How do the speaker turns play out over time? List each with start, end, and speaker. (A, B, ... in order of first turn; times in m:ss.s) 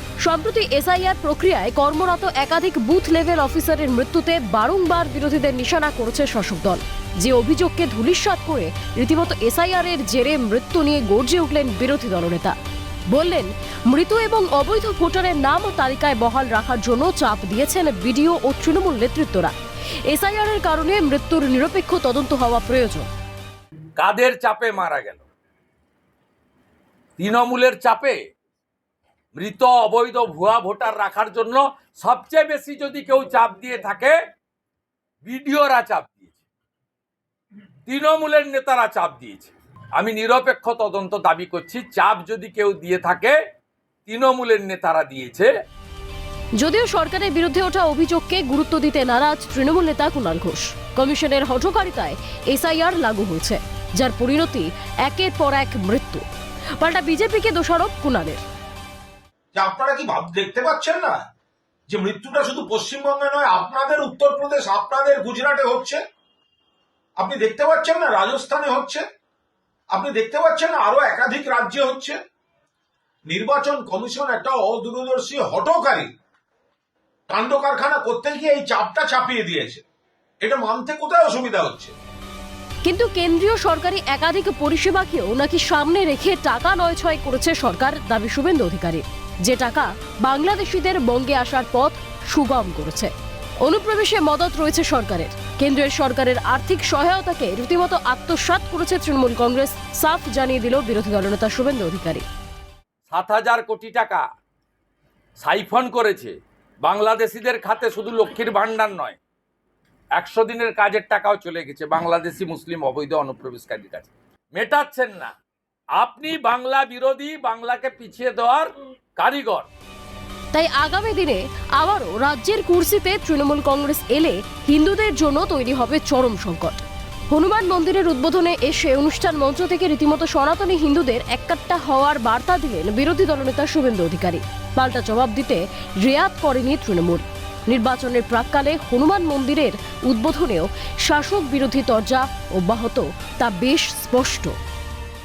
0:00.2-0:12.6 A
0:13.1-0:19.5 A
0:20.1-0:23.1 A
0:24.0-0:25.2 B
0:27.2-0:28.2 B
0:29.4-0:34.2 B
0:35.2-0:36.3 B
0:37.9-0:43.4 B
0:44.1-0:45.5 B
0:46.6-0:56.2 A
0:56.8-0:58.4 A
0:59.5-1:01.2 C
1:01.9-1:06.0 C
1:07.2-1:09.0 C
1:09.9-1:12.2 C
1:13.3-1:16.1 C
1:17.3-1:19.8 C
1:20.4-1:21.9 C
1:22.8-1:33.1 A
1:33.6-1:42.2 A
1:43.1-1:44.2 B
1:45.4-1:46.3 B
1:46.8-1:49.2 B
1:50.2-1:55.3 B
1:56.0-1:59.7 B
2:00.5-2:24.5 A